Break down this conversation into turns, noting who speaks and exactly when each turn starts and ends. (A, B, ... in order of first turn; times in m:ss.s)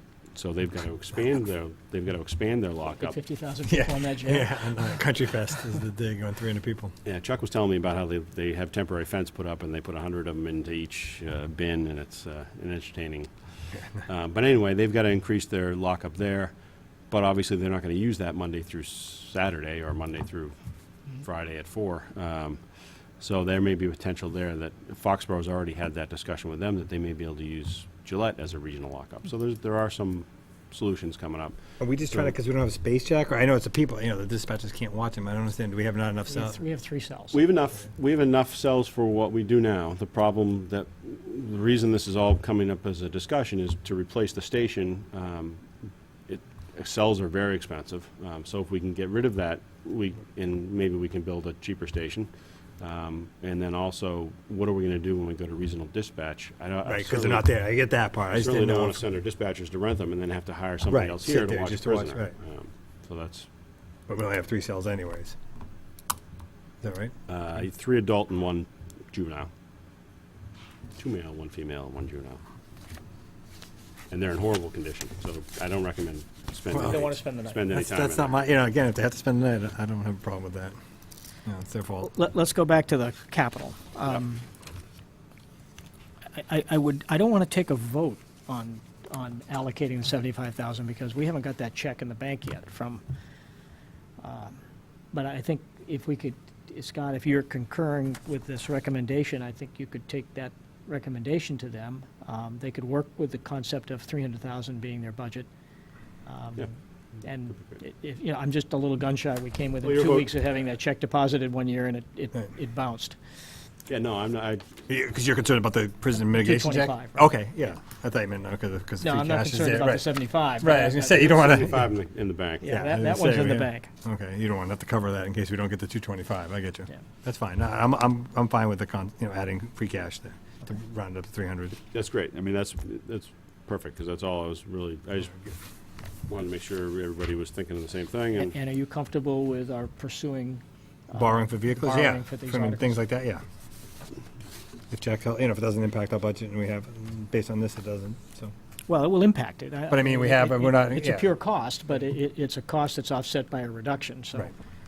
0:00.3-0:03.2 A
0:02.9-0:05.5 B
0:03.7-0:06.9 C
0:07.0-0:16.5 A
0:17.1-0:20.5 A
0:21.2-0:22.6 A
0:23.2-0:32.3 A
0:31.8-0:36.6 C
0:36.3-0:37.4 B
0:37.3-0:45.7 A
0:46.3-0:57.5 A
0:56.9-0:59.0 C
0:58.3-1:03.5 A
1:00.9-1:02.3 C
1:04.1-1:05.4 C
1:06.8-1:07.1 C
1:07.3-1:09.5 A
1:11.0-1:12.4 A
1:14.1-1:18.4 A
1:16.7-1:17.0 C
1:16.8-1:17.7 B
1:17.7-1:20.7 C
1:21.4-1:22.1 C
1:22.0-1:24.4 B
1:26.3-1:33.0 B
1:34.2-1:34.6 B
1:35.1-1:45.5 B
1:46.2-1:53.2 B
1:49.8-1:50.3 A
1:53.9-1:54.7 A
1:54.9-2:01.9 C
1:56.2-1:57.2 B
1:59.0-2:01.3 B
2:01.1-2:02.8 A
2:02.6-2:03.9 B
2:02.7-2:11.8 C
2:11.9-2:15.5 A
2:16.3-2:18.6 A
2:18.3-2:23.0 B
2:21.1-2:23.4 C
2:24.9-2:28.5 C
2:28.9-2:34.5 B
2:29.9-2:31.3 C